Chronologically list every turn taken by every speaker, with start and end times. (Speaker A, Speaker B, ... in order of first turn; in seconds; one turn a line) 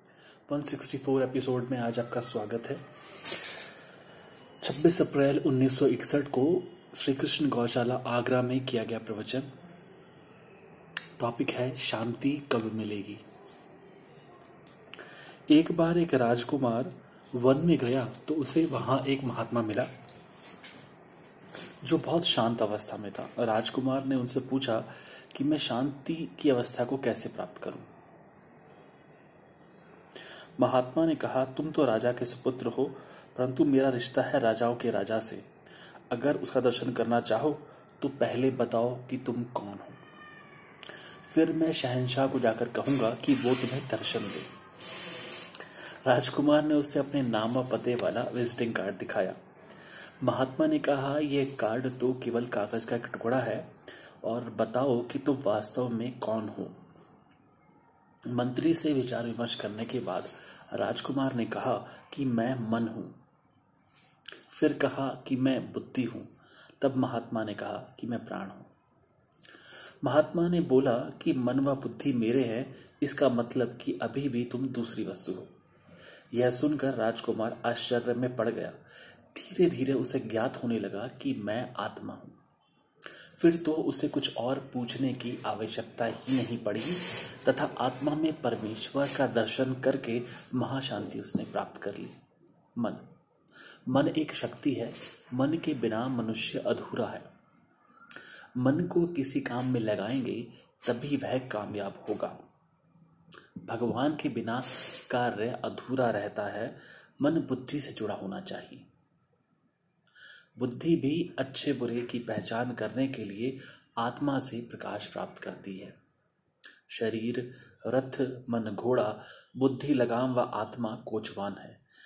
Speaker A: 0.5-3.5
Speaker A: 4.6-9.5
Speaker A: 11.2-13.2
Speaker A: 15.5-19.9
Speaker A: 21.8-27.9
Speaker A: 30.6-35.5
Speaker A: 36.1-40.0
Speaker A: 40.9-44.5
Speaker A: 46.0-49.4
Speaker A: 50.2-56.8
Speaker A: 58.3-63.2
Speaker A: 64.5-68.7
Speaker A: 70.0-75.5
Speaker A: 76.3-82.4
Speaker A: 83.2-92.2
Speaker A: 92.8-93.1
Speaker A: 93.9-97.3
Speaker A: 98.6-102.4
Speaker A: 103.6-108.9
Speaker A: 110.6-116.0
Speaker A: 116.9-121.8